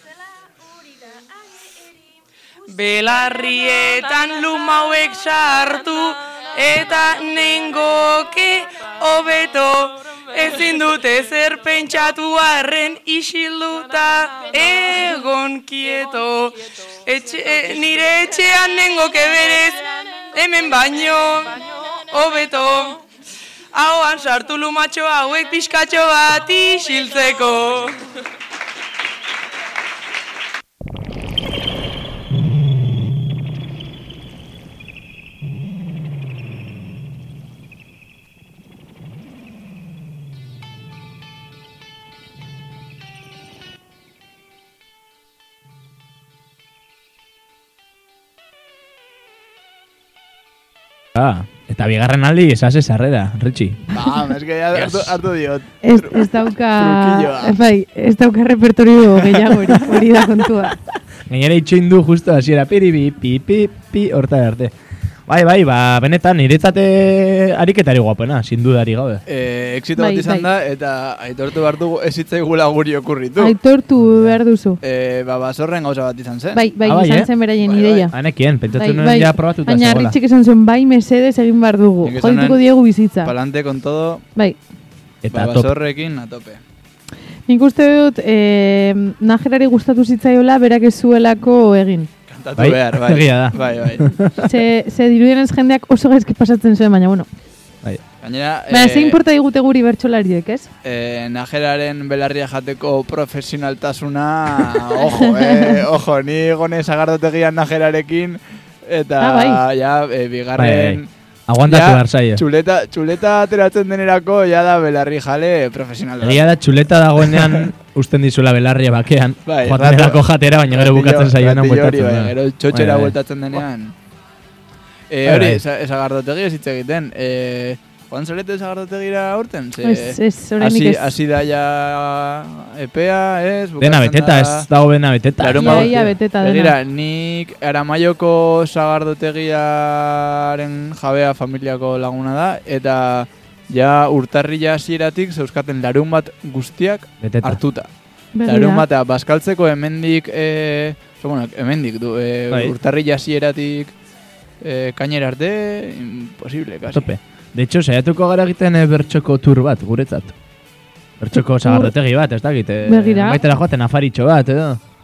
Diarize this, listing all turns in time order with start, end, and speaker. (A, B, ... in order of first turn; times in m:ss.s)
0:02.7-0:23.0 A
0:23.7-0:28.0 A
0:51.1-0:53.8 B
0:53.9-0:57.6 C
0:54.7-0:55.2 B
0:55.8-1:00.8 D
1:01.2-1:04.7 B
1:05.3-1:09.2 B
1:09.3-1:13.6 C
1:10.0-1:10.4 D
1:13.4-1:14.8 D
1:14.8-1:16.6 C
1:16.5-1:18.1 D
1:16.8-1:17.3 B
1:17.6-1:18.1 C
1:18.1-1:20.2 B
1:18.7-1:23.3 D
1:22.0-1:22.7 C
1:23.2-1:24.2 C
1:25.2-1:25.7 B
1:25.3-1:26.6 C
1:27.5-1:32.1 D
1:32.3-1:34.1 C
1:32.6-1:34.5 B
1:34.4-1:37.3 D
1:38.2-1:39.2 C
1:38.7-1:40.7 D
1:40.8-1:51.1 C
1:45.0-1:45.8 D
1:49.2-1:49.6 D
1:50.5-1:52.4 B
1:51.7-1:56.5 C
1:56.2-2:03.1 B
1:57.2-1:57.7 C
1:59.4-2:03.9 C
2:05.1-2:14.7 C
2:05.2-2:05.6 B
2:09.8-2:11.1 D
2:13.8-2:16.0 B
2:15.4-2:27.9 C
2:15.5-2:16.7 D
2:27.2-2:27.6 B
2:28.4-2:28.8 D
2:28.5-2:33.9 C
2:32.5-2:32.8 B
2:34.6-2:37.1 C
2:36.9-2:40.3 B
2:41.2-2:44.8 B
2:41.3-2:41.9 D
2:42.8-2:43.4 D